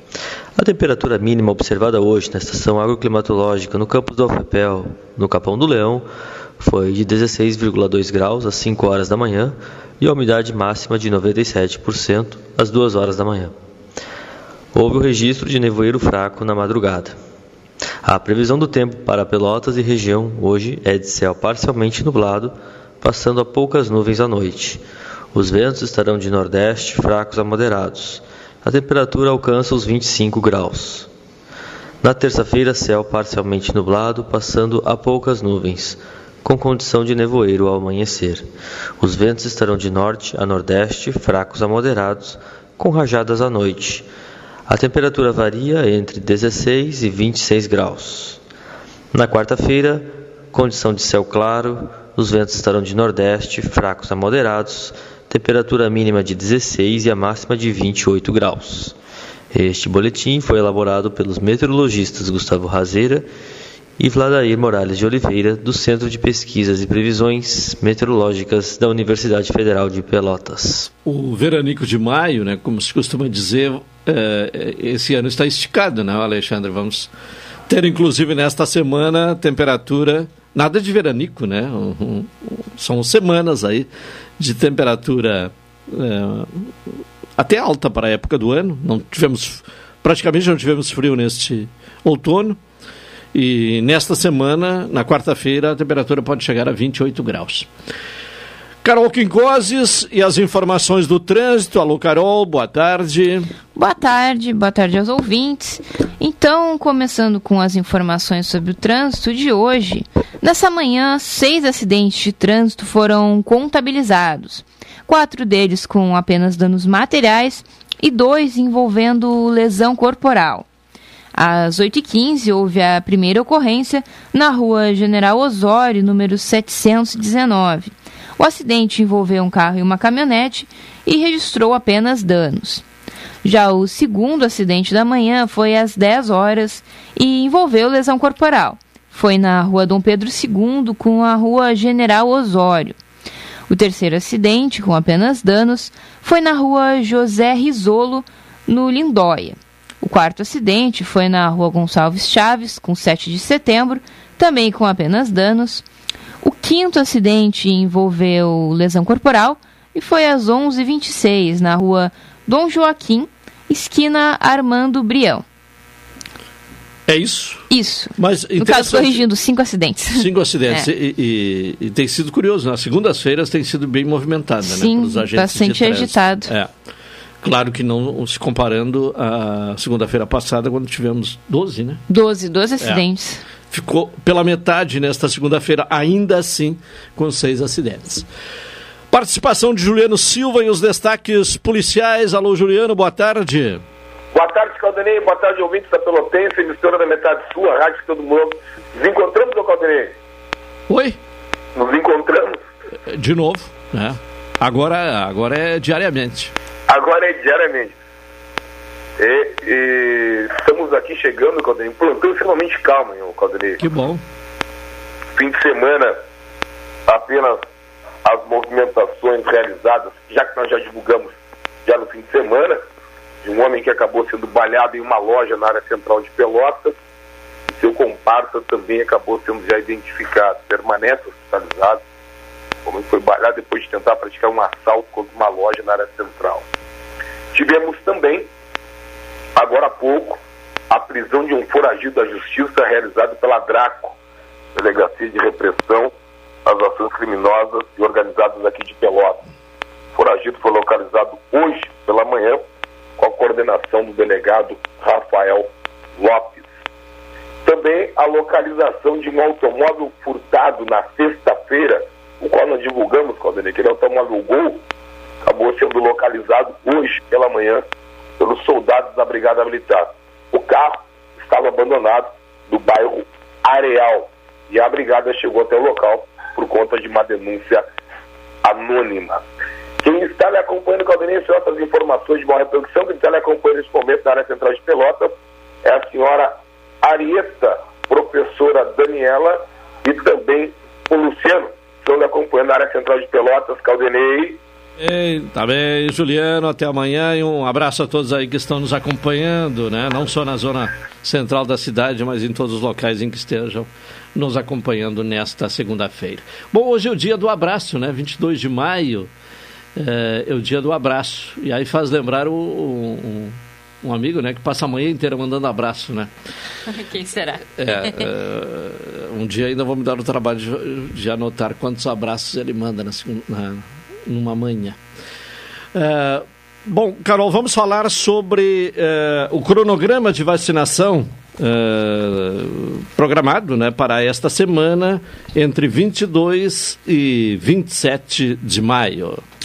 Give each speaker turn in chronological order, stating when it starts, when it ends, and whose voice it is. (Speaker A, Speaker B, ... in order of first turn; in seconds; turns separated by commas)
Speaker A: 0.6-13.6, Speaker A: 14.7-17.2, Speaker A: 18.0-31.1, Speaker A: 32.0-38.5, Speaker A: 39.0-44.1, Speaker A: 44.7-48.4, Speaker A: 49.1-59.0, Speaker A: 59.5-63.3, Speaker A: 64.0-70.9, Speaker B: 71.1-77.1, Speaker B: 77.7-83.9, Speaker B: 84.4-92.6, Speaker B: 93.3-97.7, Speaker B: 98.8-103.5, Speaker C: 103.8-120.7, Speaker C: 121.3-132.8, Speaker C: 133.4-143.0, Speaker C: 143.7-155.8, Speaker C: 156.4-165.4, Speaker B: 167.1-167.7, Speaker C: 167.7-170.9, Speaker B: 168.2-169.3, Speaker B: 170.1-176.7, Speaker C: 174.6-176.5, Speaker B: 177.4-182.0, Speaker C: 182.1-183.4, Speaker B: 183.7-188.3, Speaker B: 189.1-193.8, Speaker D: 194.3-200.1, Speaker B: 200.9-201.2, Speaker D: 201.8-202.6, Speaker B: 203.1-206.5, Speaker D: 206.9-207.9, Speaker D: 209.2-213.8, Speaker B: 213.8-214.2, Speaker D: 215.4-216.2, Speaker D: 217.1-217.6, Speaker D: 218.2-221.3, Speaker D: 221.9-222.8, Speaker D: 223.4-226.9, Speaker D: 227.7-232.0, Speaker D: 232.8-236.7, Speaker D: 237.5-238.5, Speaker D: 239.6-240.4, Speaker D: 240.9-244.2, Speaker D: 244.8-246.1, Speaker D: 246.7-249.4, Speaker D: 250.2-252.6, Speaker D: 253.2-256.7, Speaker D: 257.6-264.8, Speaker D: 265.4-267.8, Speaker D: 268.4-277.8, Speaker D: 278.6-279.4, Speaker D: 280.0-294.6, Speaker B: 295.0-309.3, Speaker B: 309.9-316.3, Speaker C: 316.9-318.2, Speaker B: 317.8-325.0, Speaker B: 325.9-339.4